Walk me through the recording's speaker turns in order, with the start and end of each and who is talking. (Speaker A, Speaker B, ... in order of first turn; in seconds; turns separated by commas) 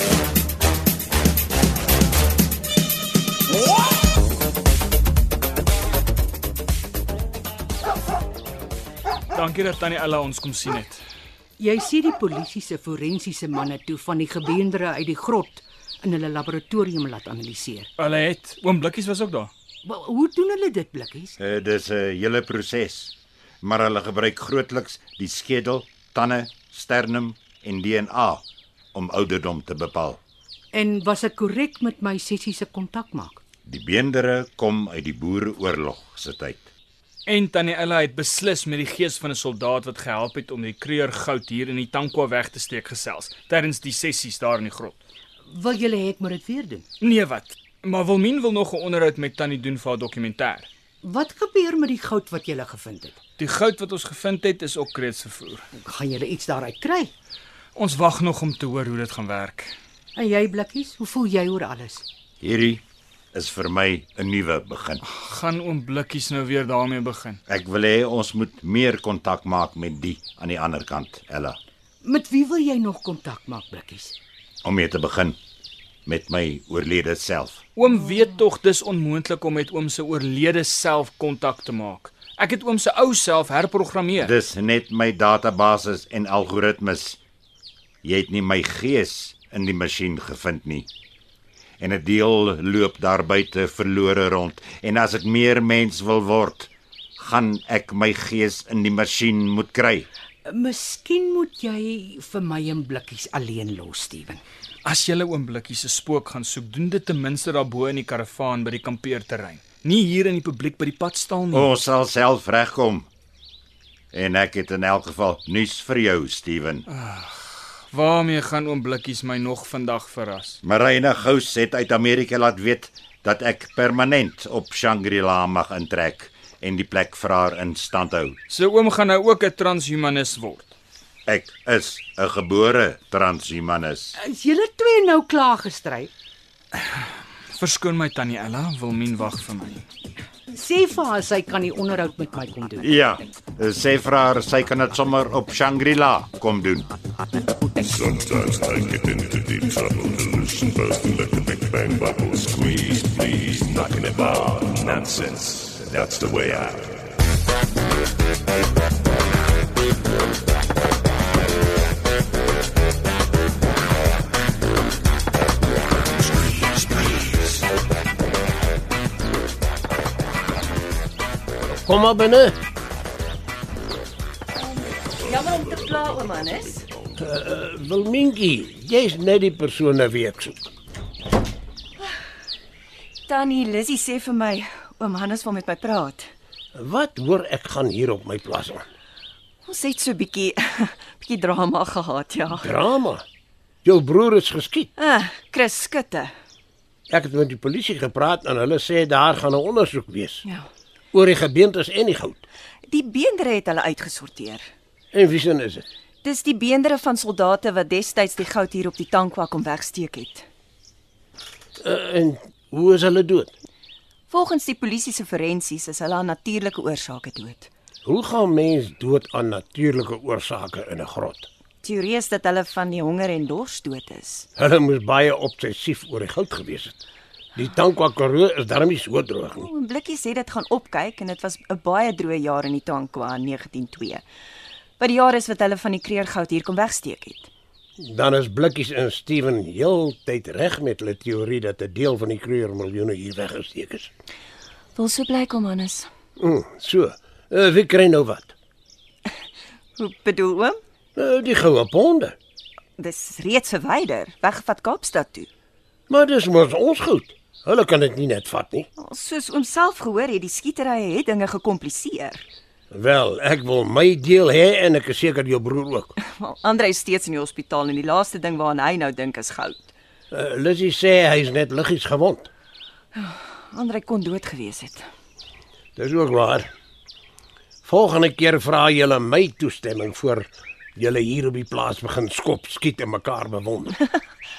Speaker A: 9.3-11.0, Speaker B: 11.6-17.9, Speaker A: 18.0-19.5, Speaker B: 19.8-21.4, Speaker C: 21.4-30.2, Speaker B: 30.7-33.4, Speaker C: 33.6-36.7, Speaker A: 37.2-45.0, Speaker B: 45.5-46.8, Speaker A: 47.0-50.7, Speaker B: 51.0-53.2, Speaker A: 53.4-55.6, Speaker B: 55.8-57.1, Speaker A: 57.7-59.7, Speaker B: 60.1-62.0, Speaker C: 62.4-62.8, Speaker C: 63.3-65.0, Speaker A: 65.0-67.4, Speaker C: 67.5-71.6, Speaker B: 72.0-74.1, Speaker C: 74.6-75.4, Speaker C: 76.0-77.6, Speaker A: 77.8-84.3, Speaker C: 84.2-87.2, Speaker C: 88.0-90.9, Speaker C: 91.8-100.1, Speaker B: 100.5-104.4, Speaker A: 104.8-111.7, Speaker C: 111.5-113.1, Speaker C: 114.1-116.8, Speaker A: 116.9-120.6, Speaker C: 120.6-128.4, Speaker A: 128.5-130.7, Speaker C: 131.2-134.2, Speaker B: 134.2-136.1, Speaker A: 137.5-139.8, Speaker B: 140.5-142.9, Speaker C: 142.8-146.9, Speaker D: 148.1-156.9, Speaker E: 171.8-172.5, Speaker F: 174.6-176.9, Speaker E: 177.2-180.7, Speaker F: 183.3-186.3, Speaker E: 186.7-188.8, Speaker F: 189.6-192.8, Speaker E: 192.6-193.2, Speaker E: 193.8-194.9, Speaker F: 195.0-196.3, Speaker E: 197.1-200.4, Speaker E: 201.1-202.4, Speaker F: 202.9-204.7, Speaker E: 205.1-205.8, Speaker F: 206.2-210.4, Speaker E: 211.8-213.5, Speaker F: 214.3-217.7, Speaker E: 218.0-221.5, Speaker F: 221.8-224.5, Speaker E: 224.6-227.0, Speaker E: 227.6-229.7, Speaker F: 229.6-234.2, Speaker F: 235.0-237.5, Speaker E: 238.0-244.1, Speaker F: 244.9-246.1, Speaker E: 246.4-248.5, Speaker F: 250.0-250.8, Speaker E: 251.2-252.3, Speaker F: 253.0-255.5, Speaker E: 256.1-258.9, Speaker F: 259.0-262.4, Speaker E: 262.9-266.1, Speaker F: 266.2-269.9, Speaker E: 270.3-272.5, Speaker F: 273.1-275.1, Speaker E: 275.9-276.7, Speaker E: 277.8-283.9, Speaker F: 283.9-284.2